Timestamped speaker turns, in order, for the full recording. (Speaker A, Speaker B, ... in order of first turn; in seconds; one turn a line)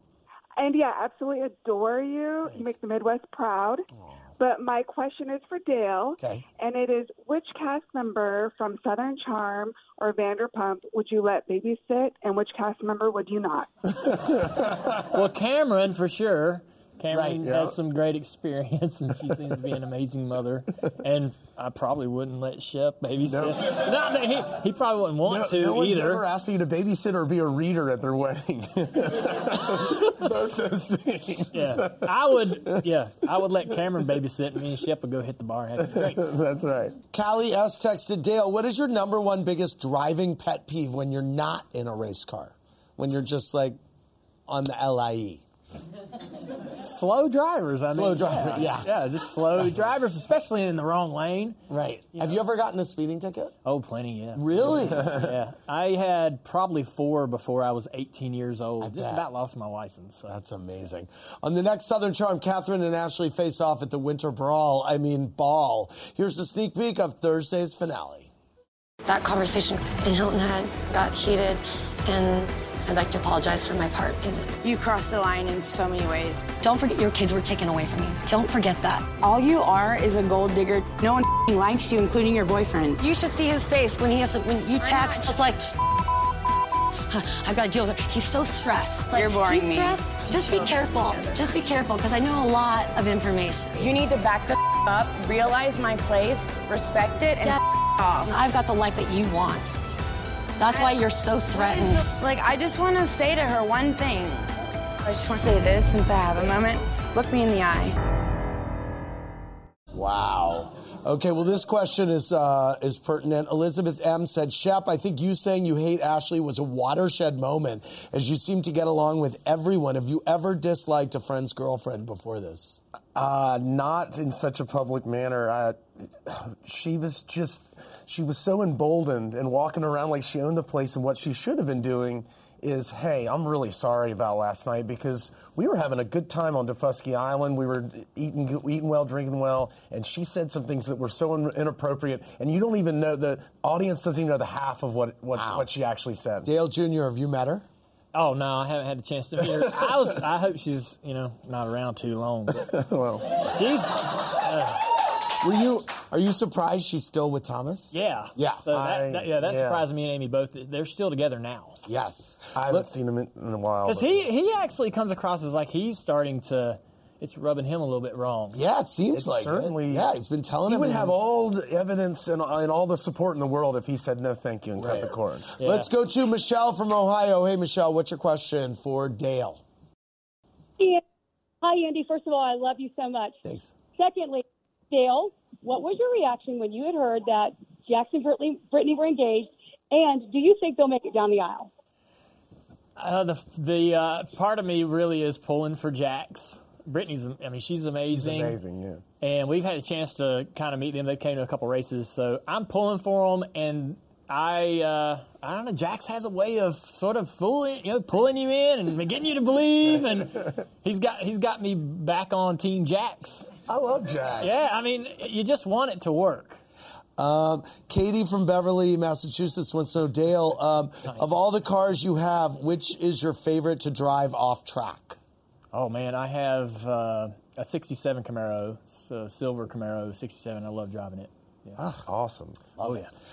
Speaker A: 0.6-3.9
Speaker B: 2.5-2.8
Speaker A: 4.4-13.7
Speaker C: 14.1-15.0
Speaker D: 15.1-26.2
Speaker B: 17.1-17.4
Speaker C: 17.4-17.8
Speaker C: 23.2-23.9
Speaker C: 25.2-32.8
Speaker D: 31.5-36.3
Speaker C: 35.9-37.0
Speaker B: 37.1-43.8
Speaker B: 44.5-45.4
Speaker D: 46.8-51.6
Speaker B: 47.9-48.9
Speaker B: 51.7-53.6
Speaker D: 53.6-60.3
Speaker B: 54.4-55.2
Speaker B: 58.8-59.3
Speaker B: 60.3-68.3
Speaker E: 69.0-74.5
Speaker F: 74.6-76.5
Speaker E: 76.6-79.1
Speaker F: 79.2-83.1
Speaker E: 83.0-85.6
Speaker F: 84.8-85.3
Speaker E: 87.1-93.9
Speaker F: 89.1-90.8
Speaker F: 93.8-98.3
Speaker E: 98.2-99.8
Speaker E: 100.6-102.1
Speaker F: 100.7-104.5
Speaker F: 105.0-108.0
Speaker B: 109.9-122.8
Speaker C: 123.2-146.5
Speaker B: 145.3-145.7
Speaker B: 146.4-147.7
Speaker D: 148.1-152.7
Speaker C: 152.6-153.4
Speaker D: 153.5-154.8
Speaker B: 155.4-158.7
Speaker D: 157.9-161.8
Speaker C: 158.7-159.9
Speaker B: 161.9-162.9
Speaker C: 162.6-164.3
Speaker D: 163.9-168.6
Speaker B: 168.5-171.2
Speaker C: 169.1-170.1
Speaker C: 170.7-175.5
Speaker B: 174.8-179.6
Speaker D: 175.6-175.9
Speaker G: 181.6-183.4
Speaker B: 183.4-183.7
Speaker G: 184.0-191.7
Speaker D: 193.0-198.6
Speaker C: 198.1-199.0
Speaker D: 199.2-213.5
Speaker C: 213.7-214.6
Speaker D: 214.4-216.6
Speaker B: 217.2-225.2
Speaker D: 225.7-231.8
Speaker B: 231.8-232.0
Speaker C: 232.1-232.6
Speaker B: 232.8-233.1
Speaker D: 232.8-233.1